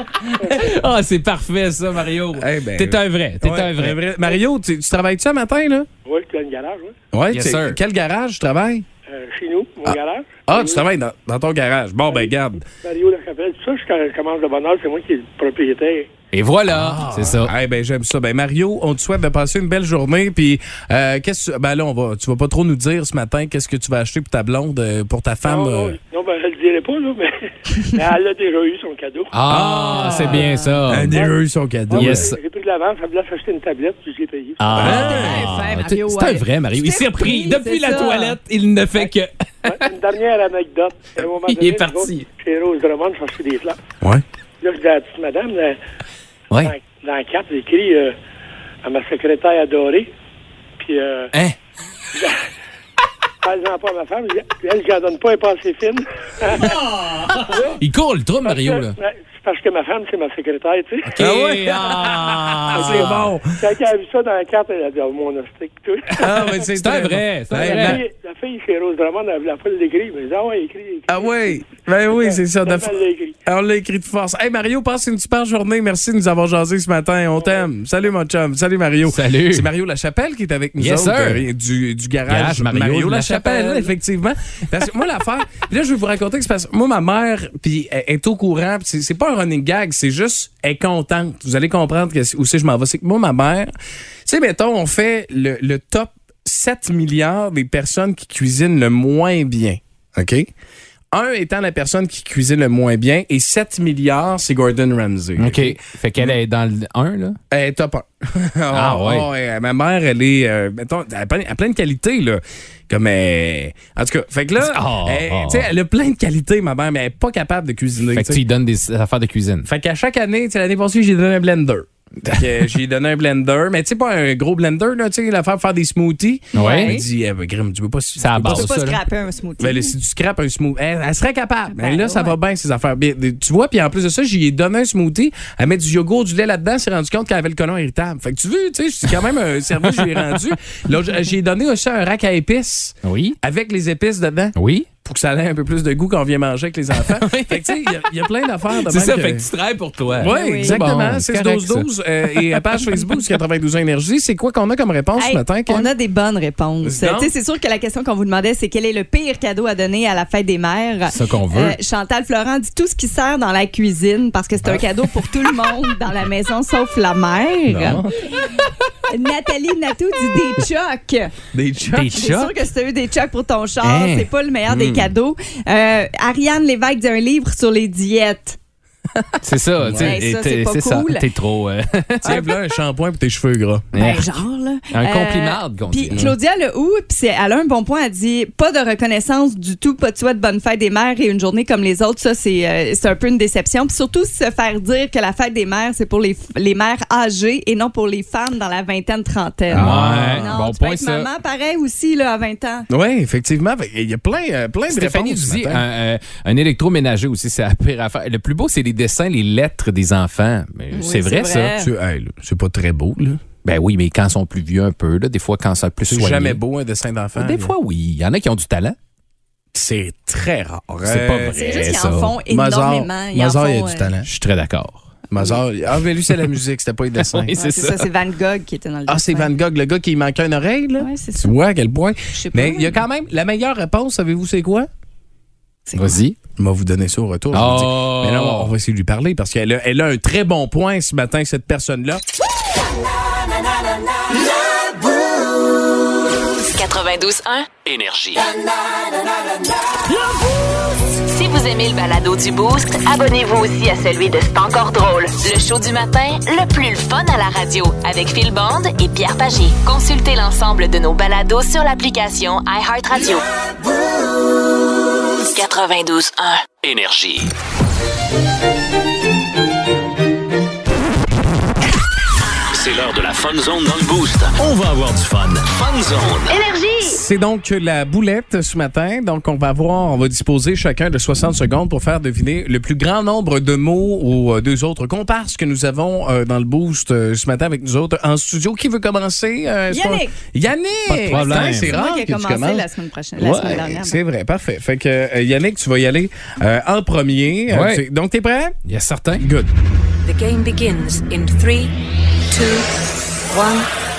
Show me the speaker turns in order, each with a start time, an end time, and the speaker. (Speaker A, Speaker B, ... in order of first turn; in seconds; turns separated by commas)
Speaker A: 0.2-4.0, Speaker B: 0.4-0.7, Speaker C: 2.3-5.9, Speaker B: 6.0-6.9, Speaker C: 7.1-8.8, Speaker A: 7.3-7.8, Speaker B: 9.1-10.8, Speaker C: 9.8-12.7, Speaker B: 12.1-16.1, Speaker A: 16.3-17.5, Speaker C: 16.7-26.0, Speaker B: 25.4-29.3, Speaker A: 29.3-31.2, Speaker C: 29.5-32.3, Speaker B: 30.2-30.4, Speaker D: 30.3-30.6, Speaker B: 31.1-31.4, Speaker B: 31.9-34.9, Speaker A: 31.9-32.4, Speaker A: 34.6-39.9, Speaker C: 34.8-35.5, Speaker D: 34.8-38.4, Speaker B: 39.6-43.8, Speaker A: 41.5-42.2, Speaker B: 44.6-45.8, Speaker B: 46.6-48.1, Speaker B: 48.8-50.1, Speaker B: 50.8-51.3, Speaker B: 52.1-52.4, Speaker B: 53.4-56.8, Speaker A: 57.2-59.0, Speaker B: 57.4-57.8, Speaker B: 58.4-61.2, Speaker A: 61.1-63.2, Speaker C: 61.2-63.5, Speaker B: 62.7-66.6, Speaker C: 66.2-68.0, Speaker A: 66.8-68.0, Speaker B: 67.5-71.6, Speaker C: 71.1-93.7, Speaker B: 72.1-73.3, Speaker A: 79.1-79.7, Speaker A: 80.8-81.4, Speaker A: 82.3-83.9, Speaker C: 94.2-100.5, Speaker C: 101.1-106.4, Speaker A: 105.4-107.4, Speaker C: 107.5-118.4, Speaker A: 108.7-109.3, Speaker A: 114.6-115.7, Speaker A: 118.1-119.7, Speaker C: 119.6-128.7, Speaker A: 126.5-126.9, Speaker D: 126.5-127.0, Speaker A: 128.2-129.0, Speaker D: 128.4-129.9, Speaker C: 129.6-149.5, Speaker D: 131.7-132.3, Speaker A: 143.0-143.4, Speaker A: 144.6-144.9, Speaker A: 147.0-148.1, Speaker A: 148.7-153.2, Speaker C: 150.1-155.9, Speaker D: 150.3-150.8, Speaker D: 155.2-168.0, Speaker C: 156.8-157.3, Speaker A: 161.1-161.8, Speaker C: 167.7-168.6, Speaker D: 169.1-171.3, Speaker C: 171.5-172.2, Speaker A: 171.8-172.6, Speaker D: 172.1-178.6, Speaker A: 173.8-175.1, Speaker C: 179.1-180.2, Speaker A: 179.4-182.4, Speaker D: 180.0-181.3, Speaker C: 182.2-183.9, Speaker D: 182.2-182.5, Speaker A: 183.9-184.4, Speaker D: 183.9-202.9, Speaker A: 184.9-186.3, Speaker C: 186.1-186.3, Speaker C: 199.7-200.5, Speaker A: 199.7-201.3, Speaker C: 202.9-205.8, Speaker A: 204.9-211.7, Speaker D: 210.9-211.9, Speaker C: 211.8-213.4, Speaker A: 213.6-216.6, Speaker C: 216.1-217.7, Speaker A: 217.3-218.9, Speaker C: 219.7-221.6, Speaker A: 221.0-222.3, Speaker D: 221.5-224.1, Speaker C: 222.5-224.3, Speaker A: 224.3-225.2, Speaker C: 225.3-227.6, Speaker A: 227.2-228.1, Speaker D: 227.5-229.5, Speaker C: 229.1-234.9, Speaker D: 231.0-231.5, Speaker D: 232.3-233.0, Speaker D: 235.9-236.2, Speaker A: 235.9-236.3, Speaker C: 236.6-242.2, Speaker A: 237.5-238.7, Speaker E: 246.7-247.7, Speaker F: 247.8-248.5, Speaker E: 251.2-263.4, Speaker E: 265.5-266.7, Speaker F: 266.8-267.5, Speaker F: 272.7-276.6, Speaker E: 276.7-277.0, Speaker C: 277.0-292.9, Speaker D: 289.9-290.3, Speaker A: 291.1-291.9, Speaker D: 291.3-294.2, Speaker C: 293.4-298.8, Speaker A: 297.7-298.0, Speaker A: 298.9-299.4, Speaker C: 299.4-299.7, Speaker G: 300.2-301.9, Speaker G: 302.5-302.9, Speaker G: 303.5-303.9